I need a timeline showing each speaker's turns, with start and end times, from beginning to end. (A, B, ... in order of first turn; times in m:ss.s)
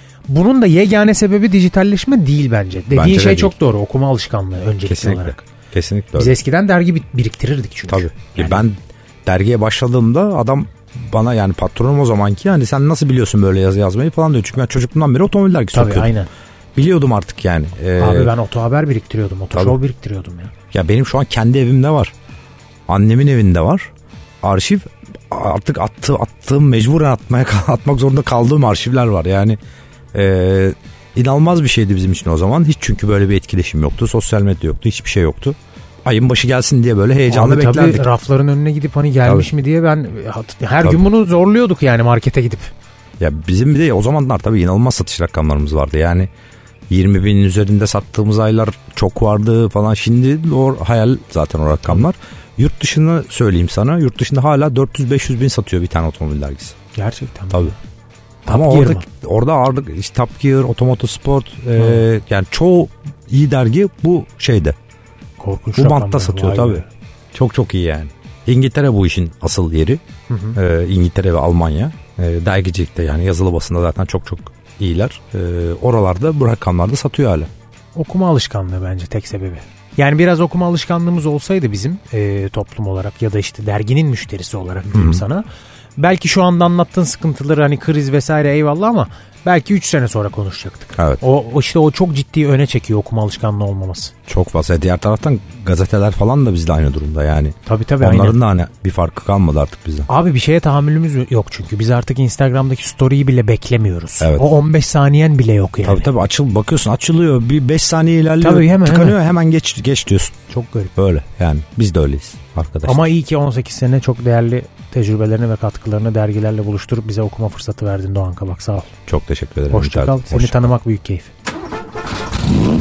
0:00.3-0:05.4 A
0:02.9-0:03.5 B
0:04.9-0:06.4 B
0:06.2-0:08.6 A
0:07.9-0:16.1 B
0:15.7-0:16.3 A
0:16.8-0:18.3 B
0:18.0-0:20.5 A
0:20.7-0:22.1 B
0:22.9-0:23.9 B
0:24.4-0:29.6 B
0:30.1-0:38.1 B
0:37.3-0:42.7 A
0:43.2-0:46.3 B
0:46.9-0:56.8 B
0:56.9-0:57.8 A
0:58.5-0:59.0 A
0:58.5-1:04.8 B
1:01.8-1:02.0 A
1:05.4-1:06.9 A
1:05.8-1:06.8 B
1:07.3-1:10.0 B
1:10.3-1:10.6 A
1:10.6-1:17.5 B
1:17.9-1:25.5 A
1:24.9-1:25.2 B
1:26.0-1:34.1 A
1:34.3-1:40.1 B
1:37.7-1:38.4 A
1:40.1-1:46.1 A
1:44.2-1:44.5 B
1:45.8-1:50.4 B
1:48.4-1:49.2 A
1:50.5-1:50.9 A
1:51.0-1:53.0 B
1:52.8-1:58.9 A
1:59.1-2:00.6 B
1:59.7-2:01.3 A